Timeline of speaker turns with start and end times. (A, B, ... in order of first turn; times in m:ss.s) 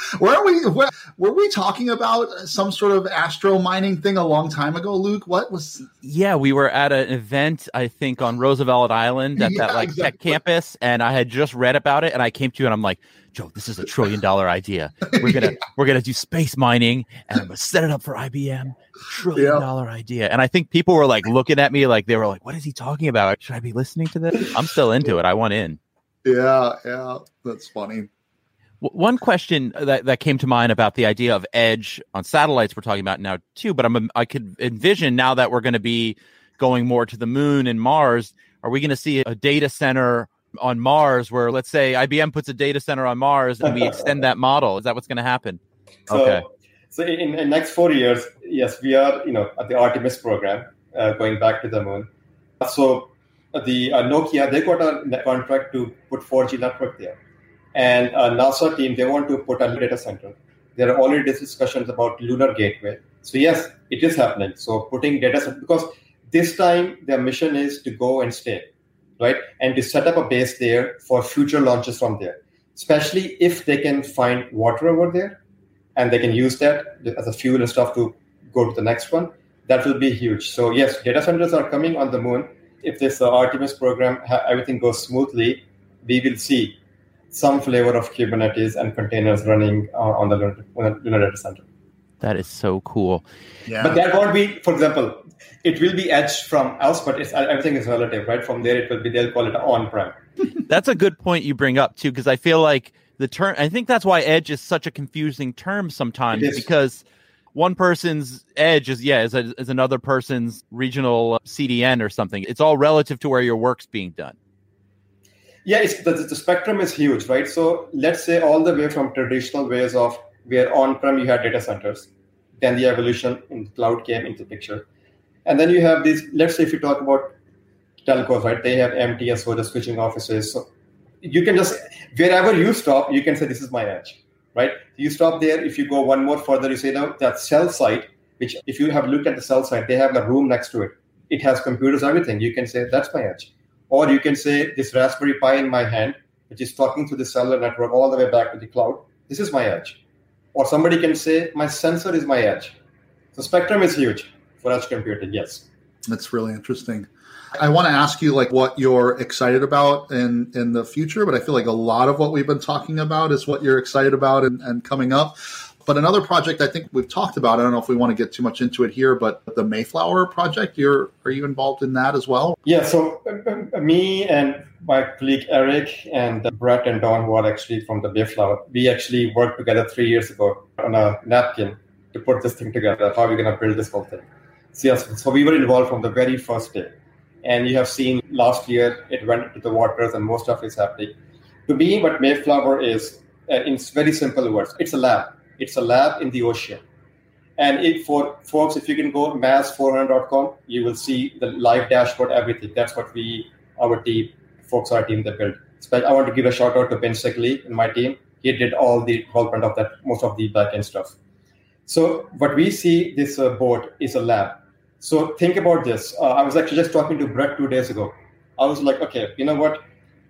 0:00.2-0:05.9 A
0:06.0-0:25.8 B
0:09.4-0:10.4 A
0:15.2-0:15.5 A
0:19.3-0:19.6 A
0:26.2-0:28.1 A
0:28.8-0:46.4 B
0:46.1-0:52.1 C
0:52.6-0:57.2 C
0:57.8-1:08.7 C
1:09.2-1:15.4 C
1:16.0-1:26.8 C
1:27.3-1:31.6 C
1:32.2-1:33.2 B
1:33.7-1:34.0 A
1:33.8-1:40.2 C
1:40.7-1:54.4 B
1:46.3-1:46.7 C
1:55.6-2:02.1 C
2:02.6-2:04.8 C
2:05.5-2:07.4 C
2:08.1-2:10.7 C
2:11.2-2:30.0 C
2:30.5-2:32.8 C
2:33.4-2:35.6 C
2:36.1-2:52.6 A
2:52.6-3:06.9 C
3:07.4-3:11.1 C
3:11.7-3:16.8 C
3:17.6-3:31.2 C
3:31.9-3:39.8 C